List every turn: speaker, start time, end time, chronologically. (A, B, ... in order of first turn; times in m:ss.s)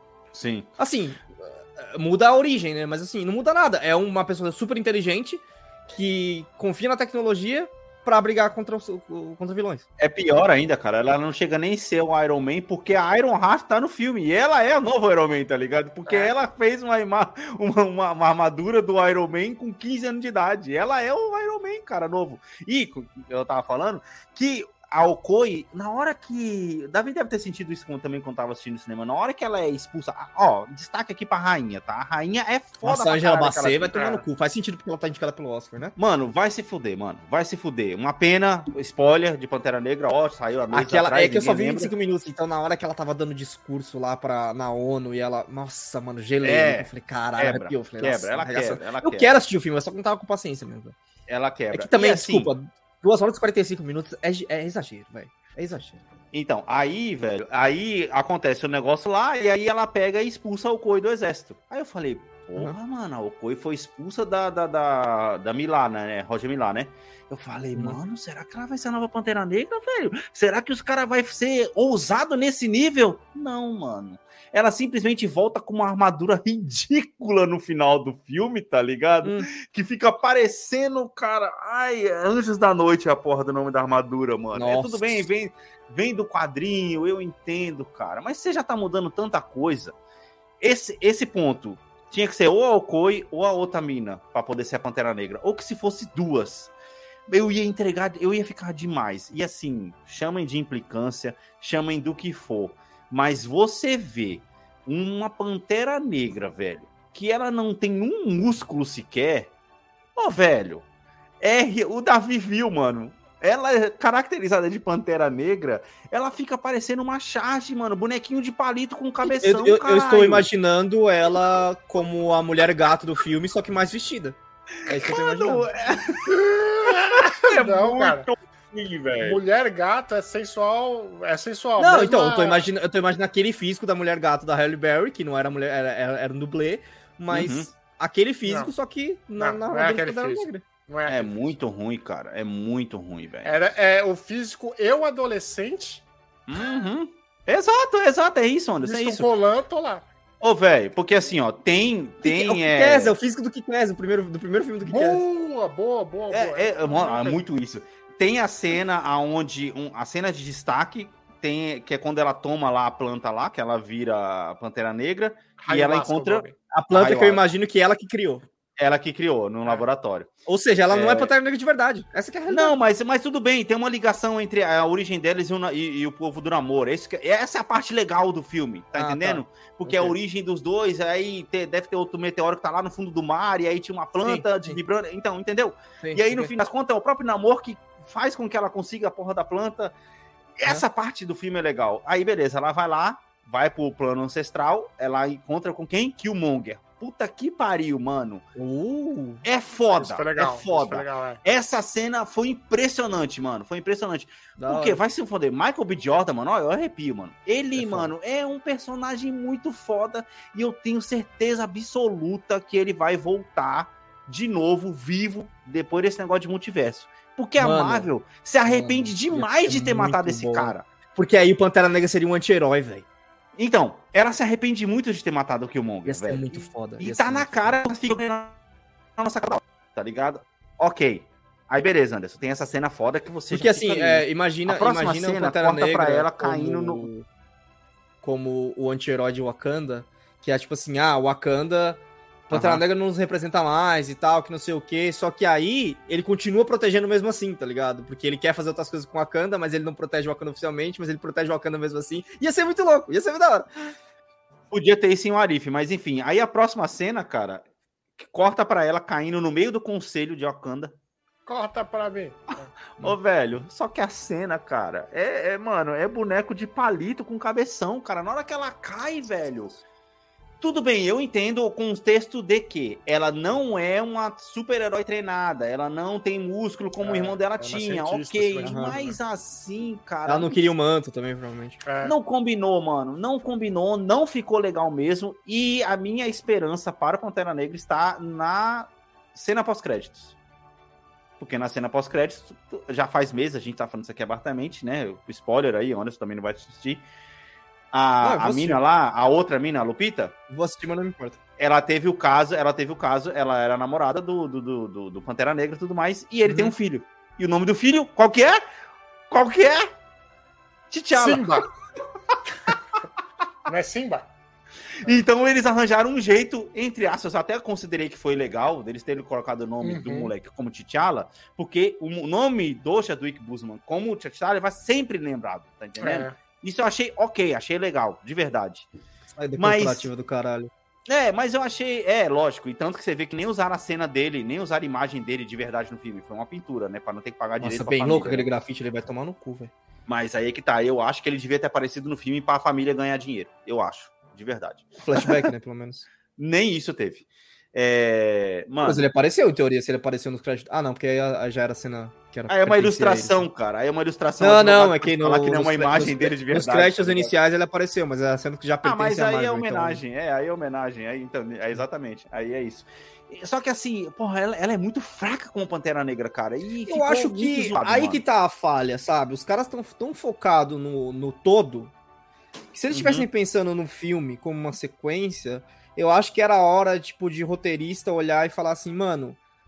0:00.3-0:00.7 A
0:00.8-0:09.8 B
0:10.0-0:34.0 A
0:32.8-0:35.9 B
0:33.9-0:34.2 C
0:36.0-0:41.9 A
0:40.7-0:50.9 B
0:46.4-0:49.3 A
0:51.3-0:52.5 A
0:51.7-0:56.0 B
0:56.3-1:29.9 A
1:19.2-1:19.5 B
1:24.5-1:25.2 B
1:30.6-1:36.7 A
1:37.3-1:49.5 A
1:50.2-1:50.8 A
1:51.4-2:00.5 A
1:59.2-2:05.7 B
2:04.8-2:09.4 A
2:06.3-2:08.2 C
2:09.2-2:12.6 C
2:11.8-2:20.6 B
2:17.3-2:17.7 A
2:19.4-2:21.4 C
2:21.0-2:23.5 A
2:23.4-2:26.0 C
2:26.5-2:29.3 A
2:28.8-2:30.0 C
2:30.4-2:33.2 A
2:32.2-2:35.2 B
2:34.8-2:37.4 C
2:36.3-2:47.4 A
2:45.6-2:46.5 C
2:46.7-2:48.4 B
2:48.8-2:50.3 A
2:50.4-2:52.7 B
2:50.9-2:51.3 A
2:52.5-3:09.9 A
2:58.9-3:00.1 B
3:04.2-3:04.8 B
3:06.0-3:06.5 B
3:10.6-3:18.4 A
3:18.6-3:19.4 B
3:19.4-3:40.8 A
3:19.9-3:21.4 C
3:24.6-3:25.0 B
3:27.8-3:28.1 B
3:37.6-3:38.1 B
3:38.6-3:43.0 B
3:43.6-3:48.6 A
3:46.0-3:47.8 B
3:49.2-3:57.0 A
3:53.5-3:57.2 B
3:58.2-4:13.7 B
4:02.5-4:02.8 A
4:14.7-4:17.6 A
4:18.2-4:20.9 A
4:21.4-4:22.7 C
4:22.9-4:29.8 A
4:30.6-4:40.5 A
4:37.0-4:39.2 C
4:38.6-4:39.0 B
4:40.2-4:41.8 B
4:41.8-4:42.1 C
4:42.0-4:50.4 A
4:51.4-4:57.0 A
4:57.9-5:00.3 A
4:58.2-4:58.8 B
5:00.5-5:01.4 B
5:01.6-5:08.6 A
5:06.4-5:06.7 B
5:09.3-5:09.9 A
5:10.9-5:11.6 A
5:11.1-5:11.7 C
5:13.6-5:14.3 C
5:15.0-5:28.9 A
5:19.8-5:20.3 C
5:26.0-5:26.3 C
5:29.3-5:30.7 B
5:29.6-5:30.1 A
5:31.1-5:38.5 A
5:37.6-5:39.7 B
5:40.1-5:45.4 A
5:45.0-5:46.1 B
5:46.4-5:49.0 A
5:48.8-5:53.4 B
5:52.5-5:57.3 A
5:54.4-6:00.0 B
5:58.8-6:08.2 A
6:06.9-6:11.9 B
6:12.7-6:19.4 B
6:12.9-6:13.3 A